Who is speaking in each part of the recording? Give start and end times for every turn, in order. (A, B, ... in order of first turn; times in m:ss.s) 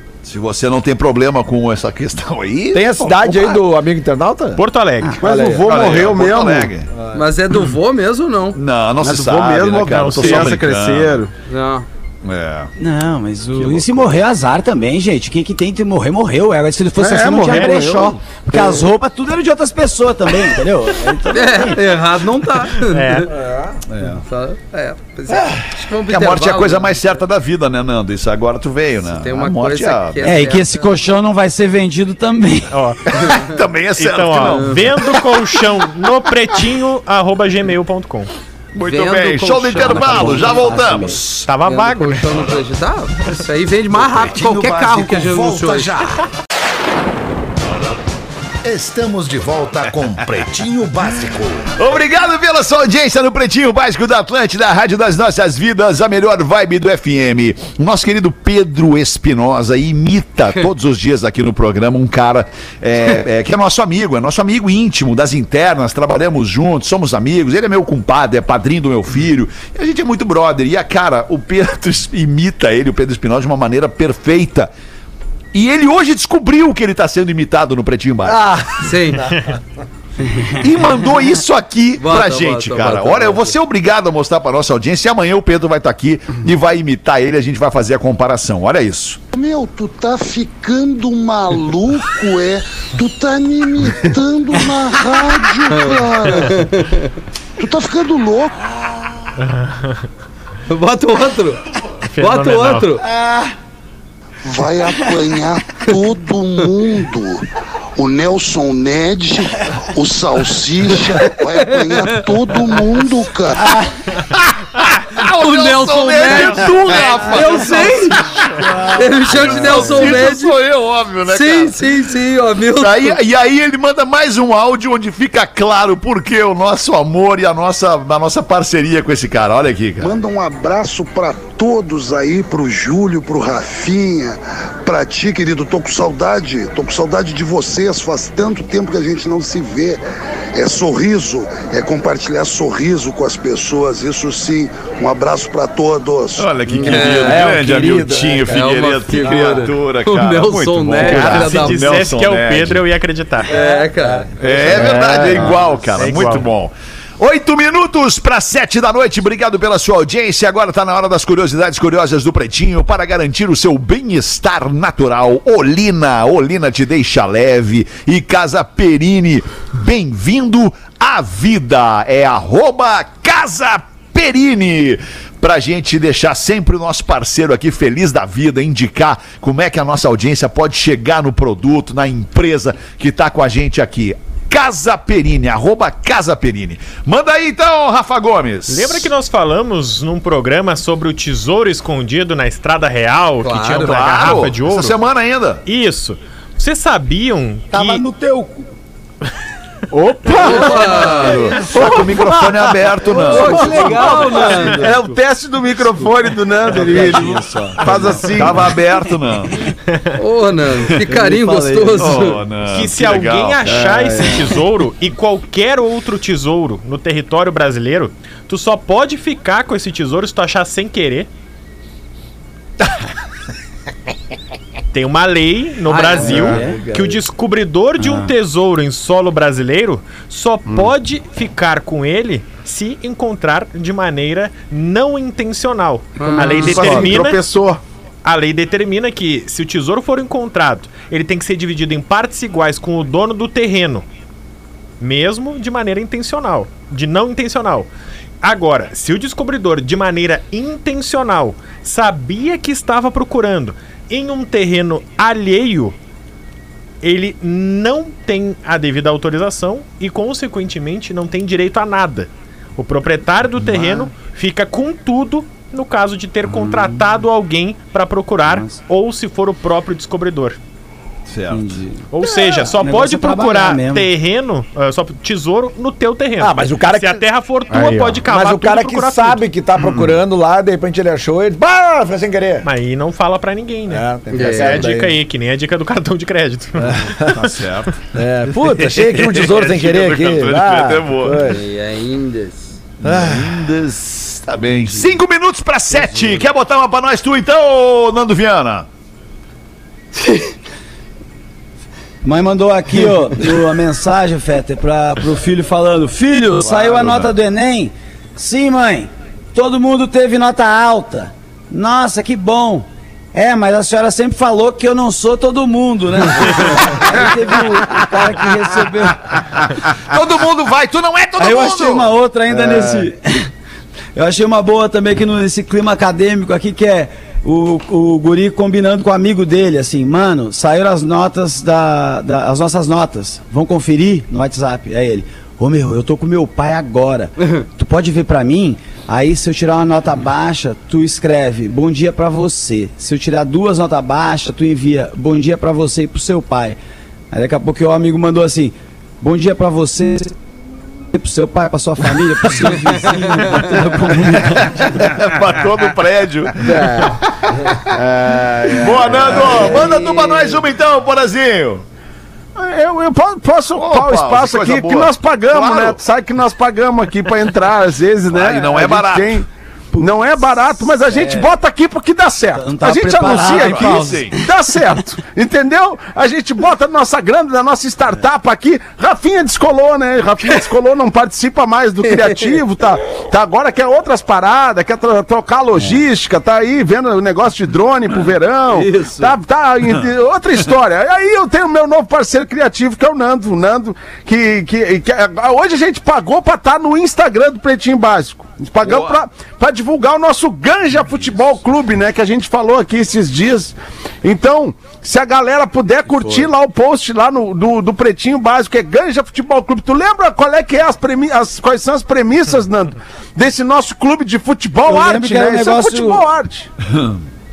0:00.2-0:03.6 A
0:02.7-0:04.6 B
0:04.6-0:05.2 C
0:05.2-0:06.7 D
0:05.2-0:05.6 B
0:05.6-0:06.9 A
0:07.1-0:08.6 E
0:08.5-0:11.2 A
0:09.0-0:11.3 D
0:09.9-0:10.6 C
0:11.5-0:11.8 E
0:12.2-0:12.7 A
0:12.8-0:21.8 F
0:13.6-0:14.1 A
0:17.0-0:18.6 D
0:21.3-0:23.3 E
0:22.9-0:23.4 C
0:23.3-0:23.8 B
0:23.9-0:24.2 A
0:24.3-0:27.0 E
0:26.1-0:30.4 A
0:29.1-0:30.9 E
0:30.2-0:32.7 F
0:32.7-0:33.0 C
0:33.1-0:35.1 A
0:34.0-0:38.3 C
0:38.7-0:41.4 A
0:38.8-0:46.0 E
0:40.1-0:40.5 F
0:41.4-0:42.5 C
0:44.1-0:46.2 G
0:48.6-0:51.7 G
0:51.8-1:14.7 A
1:15.5-1:18.4 A
1:18.3-1:19.5 B
1:18.8-1:19.2 E
1:20.6-1:29.2 A
1:22.0-1:23.5 E
1:29.3-1:36.7 H
1:35.7-1:37.1 E
1:37.6-1:38.6 H
1:39.4-1:40.0 C
1:40.7-1:41.6 E
1:42.1-1:42.9 C
1:42.2-1:43.0 E
1:43.1-1:43.5 F
1:44.4-1:53.8 H
1:51.9-1:52.2 E
1:53.6-1:54.0 F
1:54.3-2:01.9 A
1:55.4-1:58.2 E
1:58.6-1:59.9 F
1:59.0-2:00.6 E
2:01.3-2:03.2 E
2:02.8-2:10.1 A
2:10.0-2:20.0 H
2:20.6-2:26.6 H
2:26.4-2:32.8 A
2:26.7-2:27.4 E
2:26.9-2:28.6 B
2:28.4-2:31.9 E
2:29.3-2:29.7 B
2:31.2-2:33.5 C
2:33.5-2:34.3 E
2:33.5-2:36.1 B
2:34.4-3:09.1 A
2:36.0-2:36.5 C
3:08.7-3:15.0 C
3:13.4-3:14.3 E
3:13.8-3:15.6 A
3:15.7-3:18.0 C
3:17.7-3:18.7 F
3:19.9-3:21.9 D
3:20.3-3:21.7 E
3:20.6-3:24.5 A
3:23.2-3:24.8 E
3:23.2-3:28.7 D
3:23.3-3:24.9 B
3:24.4-3:24.8 C
3:26.7-3:28.1 B
3:28.3-3:29.7 A
3:30.2-3:32.4 E
3:31.1-3:32.2 B
3:31.2-3:31.9 F
3:32.0-3:33.8 A
3:32.7-3:41.3 C
3:33.6-3:34.6 D
3:44.9-3:57.4 C
3:45.9-3:46.6 E
3:46.2-3:47.2 B
3:46.3-3:46.8 F
3:48.0-3:48.3 F
3:56.2-3:56.8 E
3:56.4-3:57.1 F
3:56.6-3:57.8 D
3:56.8-3:57.1 B
3:58.2-4:04.1 C
4:05.0-4:07.9 C
4:08.4-4:16.0 C
4:17.0-4:30.6 C
4:23.7-4:24.1 F
4:26.5-4:27.0 F
4:28.5-4:28.8 F
4:31.3-4:31.8 A
4:31.5-4:34.1 F
4:32.1-4:39.4 C
4:36.4-4:42.7 B
4:39.8-4:40.1 A
4:42.6-4:47.6 C
4:43.9-4:45.2 B
4:44.3-4:44.9 E
4:46.8-4:47.4 B
4:47.3-4:48.0 A
4:48.1-4:51.6 B
4:48.8-4:51.5 A
4:51.5-4:52.7 E
4:53.0-4:58.9 A
4:53.0-4:53.6 B
5:02.2-5:19.4 F
5:07.0-5:07.3 A
5:20.0-5:22.1 A
5:21.4-5:23.5 F
5:22.5-5:23.1 D
5:24.2-5:46.8 F
5:47.3-5:50.4 F
5:51.1-5:55.2 F
5:53.6-5:57.9 A
5:56.6-5:57.2 D
5:57.9-6:00.1 D
5:58.7-6:01.8 A
6:02.6-6:09.5 D
6:03.7-6:06.0 A
6:08.3-6:09.4 A
6:09.9-6:11.5 F
6:10.0-6:56.7 D
6:12.6-6:14.4 F
6:13.2-6:14.4 A
6:28.7-6:29.3 E
6:38.8-6:39.1 A
6:54.9-6:56.2 F
6:56.9-6:57.2 A